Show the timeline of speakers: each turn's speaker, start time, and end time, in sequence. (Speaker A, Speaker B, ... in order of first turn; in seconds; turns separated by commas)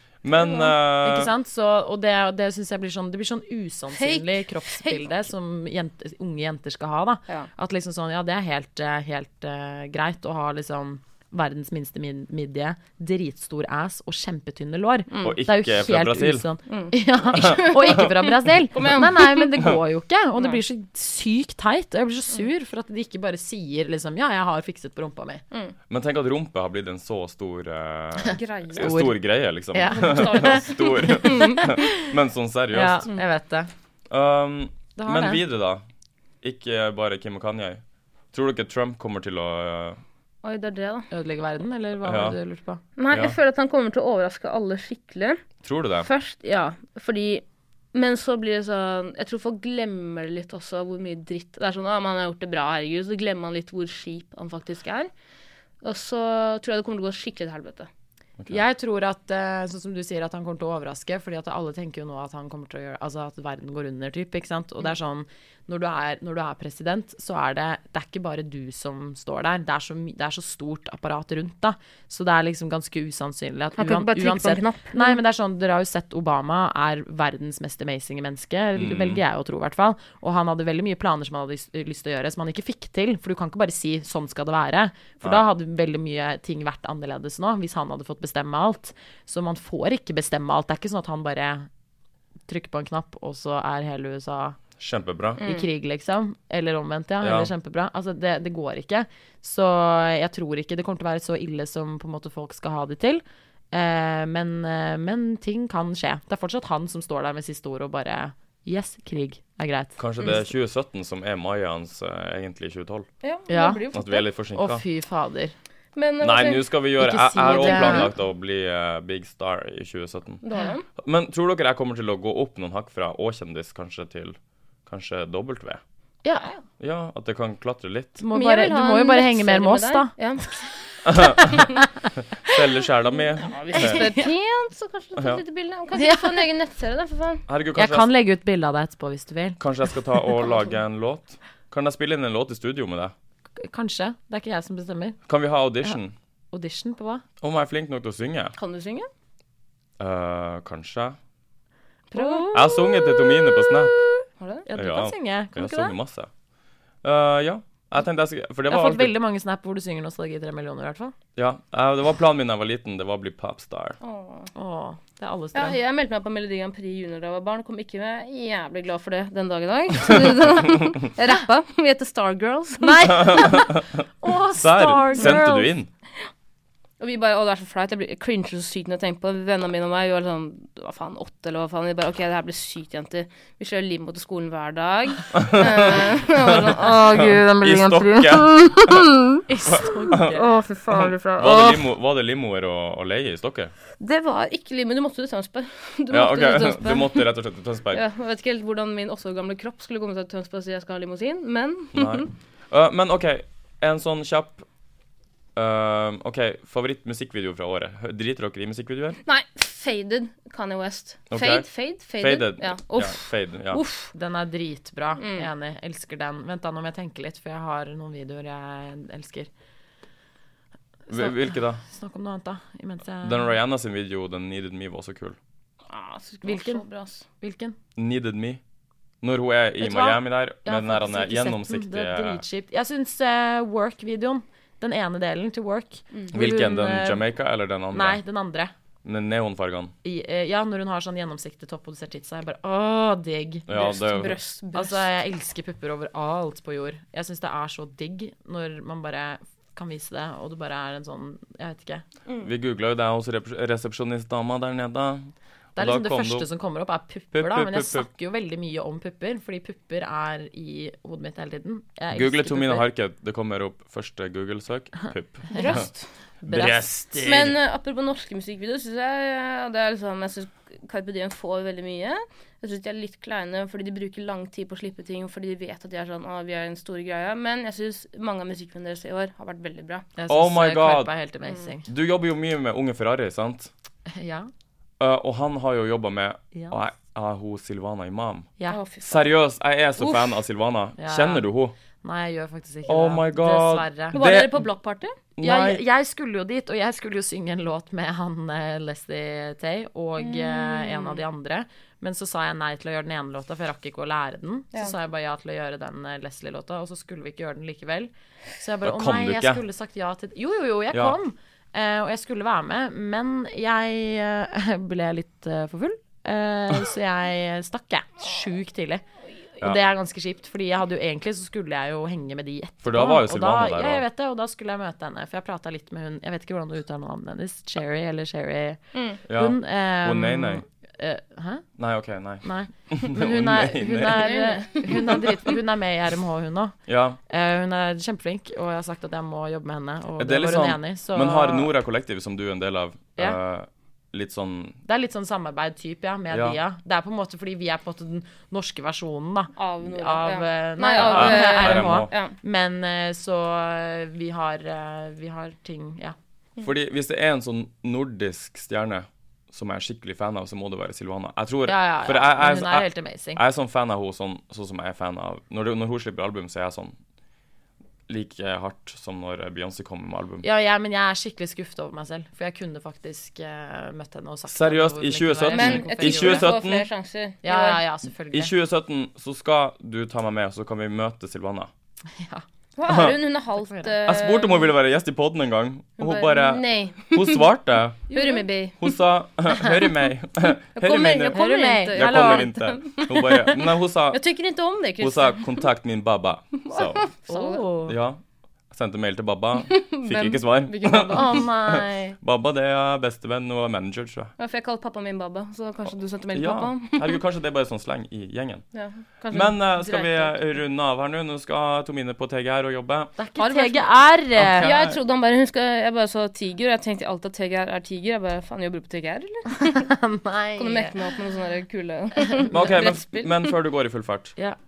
Speaker A: 0.2-1.3, Speaker B: 0.4-0.7, Speaker C: 1.0-25.4, Speaker B: 3.9-5.0, Speaker B: 15.1-15.4, Speaker A: 15.2-16.5, Speaker B: 16.7-19.7, Speaker A: 17.3-18.0, Speaker A: 25.9-33.0, Speaker C: 28.2-29.1, Speaker B: 28.3-29.0, Speaker C: 29.7-32.1, Speaker B: 29.9-31.7, Speaker C: 32.7-33.7, Speaker A: 34.1-35.8, Speaker C: 35.0-35.4, Speaker A: 36.4-37.8, Speaker A: 38.3-40.0, Speaker B: 40.4-41.1, Speaker C: 41.1-42.8, Speaker A: 42.0-42.4, Speaker B: 43.0-45.4, Speaker A: 43.1-43.4, Speaker A: 45.6-46.1, Speaker B: 46.0-55.1, Speaker B: 55.8-57.9, Speaker C: 58.5-91.7, Speaker B: 73.8-75.2, Speaker A: 78.7-79.2, Speaker C: 92.5-94.6, Speaker A: 94.8-95.4, Speaker B: 95.4-95.7, Speaker C: 95.4-110.4, Speaker A: 97.2-97.5, Speaker A: 110.0-113.1, Speaker B: 113.2-114.2, Speaker C: 113.5-113.9, Speaker A: 113.9-114.8, Speaker C: 114.5-115.5, Speaker B: 116.0-116.7, Speaker A: 116.2-120.4, Speaker C: 117.0-118.1, Speaker B: 117.6-118.1, Speaker B: 120.4-120.9, Speaker A: 121.0-125.8, Speaker C: 126.2-126.5, Speaker A: 126.8-128.2, Speaker C: 128.2-130.1, Speaker B: 128.3-130.7, Speaker A: 131.0-134.1, Speaker C: 131.2-131.8, Speaker B: 133.5-137.4, Speaker C: 133.7-134.3, Speaker A: 135.2-135.4, Speaker C: 135.9-136.4, Speaker A: 137.5-138.1, Speaker C: 137.7-139.6, Speaker A: 139.6-143.1, Speaker C: 143.6-145.2, Speaker A: 145.3-146.1, Speaker C: 146.5-147.2, Speaker A: 147.4-148.5, Speaker B: 148.6-149.1, Speaker A: 150.0-151.2, Speaker B: 152.1-152.6, Speaker C: 152.1-153.0, Speaker A: 152.5-154.0, Speaker B: 154.4-154.7, Speaker C: 154.7-155.9, Speaker A: 154.7-156.3, Speaker A: 157.0-159.1, Speaker C: 158.7-161.1, Speaker A: 161.4-164.0, Speaker B: 164.0-164.5, Speaker C: 164.6-165.8, Speaker B: 165.5-173.5, Speaker C: 172.8-175.7, Speaker A: 173.1-175.9, Speaker B: 177.0-189.4, Speaker A: 185.3-189.0, Speaker C: 189.5-190.4, Speaker A: 189.6-190.4, Speaker B: 190.1-191.8, Speaker A: 190.9-193.7, Speaker B: 194.0-197.2, Speaker A: 196.1-198.0, Speaker B: 197.9-202.3, Speaker A: 201.9-204.6, Speaker A: 205.6-209.2, Speaker B: 209.2-214.1, Speaker A: 211.3-211.7, Speaker A: 212.2-213.8, Speaker C: 214.1-219.5, Speaker B: 215.2-215.5, Speaker A: 221.1-221.8, Speaker C: 221.1-223.5, Speaker A: 223.2-225.4, Speaker B: 225.9-227.2, Speaker C: 226.4-226.8, Speaker C: 227.4-227.8, Speaker A: 227.9-228.6, Speaker A: 229.2-232.4, Speaker C: 229.8-237.2, Speaker A: 236.3-238.2, Speaker C: 237.9-238.7, Speaker A: 239.0-239.9, Speaker C: 240.0-243.7, Speaker A: 243.7-244.4, Speaker B: 243.7-245.1, Speaker C: 244.7-252.1, Speaker A: 252.4-256.5, Speaker C: 255.8-262.9, Speaker A: 257.3-258.1, Speaker A: 262.1-265.9, Speaker B: 265.5-266.1, Speaker C: 266.4-266.9, Speaker A: 266.4-267.6, Speaker B: 267.2-280.1, Speaker C: 280.2-281.9, Speaker A: 280.3-281.1, Speaker A: 281.9-283.7, Speaker C: 284.1-284.5, Speaker A: 285.0-288.5, Speaker B: 288.7-289.3, Speaker A: 289.0-291.7, Speaker B: 290.0-290.3, Speaker C: 291.0-291.4, Speaker C: 292.0-294.2, Speaker A: 292.9-294.6, Speaker B: 294.1-295.2, Speaker A: 295.4-295.8, Speaker C: 295.4-319.0, Speaker B: 300.2-301.2, Speaker A: 308.8-309.6, Speaker A: 310.9-311.2, Speaker C: 319.6-331.6, Speaker A: 322.8-324.0, Speaker B: 328.9-329.2, Speaker A: 329.3-330.6, Speaker A: 331.8-334.3, Speaker C: 332.4-341.7, Speaker B: 334.1-335.6, Speaker A: 336.9-337.2, Speaker A: 340.2-344.8, Speaker C: 344.9-356.1, Speaker A: 346.3-346.6, Speaker B: 349.6-352.3, Speaker A: 351.0-352.1, Speaker A: 356.6-366.9, Speaker C: 361.7-363.4, Speaker A: 368.1-370.4, Speaker C: 370.4-376.5, Speaker A: 374.5-376.9, Speaker B: 375.5-377.8, Speaker C: 377.4-378.5, Speaker A: 378.3-381.7, Speaker C: 382.1-382.4, Speaker B: 382.8-384.7, Speaker A: 382.9-383.1, Speaker C: 383.6-383.9, Speaker A: 384.1-388.0, Speaker B: 386.0-387.5, Speaker C: 388.1-388.4, Speaker B: 388.1-388.9, Speaker A: 388.8-394.2, Speaker B: 390.8-395.6, Speaker C: 391.3-392.5, Speaker A: 395.0-397.1, Speaker B: 396.6-397.6, Speaker C: 397.3-398.0, Speaker A: 397.9-398.2, Speaker A: 398.7-404.3, Speaker B: 399.7-401.4, Speaker C: 401.1-402.2, Speaker B: 404.4-407.2, Speaker A: 406.3-408.6, Speaker B: 408.7-409.5, Speaker C: 409.2-410.3, Speaker A: 409.3-413.1, Speaker C: 413.2-414.7, Speaker B: 413.4-413.9, Speaker A: 414.4-414.9, Speaker B: 414.6-419.9, Speaker C: 419.6-421.2, Speaker B: 420.6-423.6, Speaker C: 422.2-422.5, Speaker A: 422.5-424.4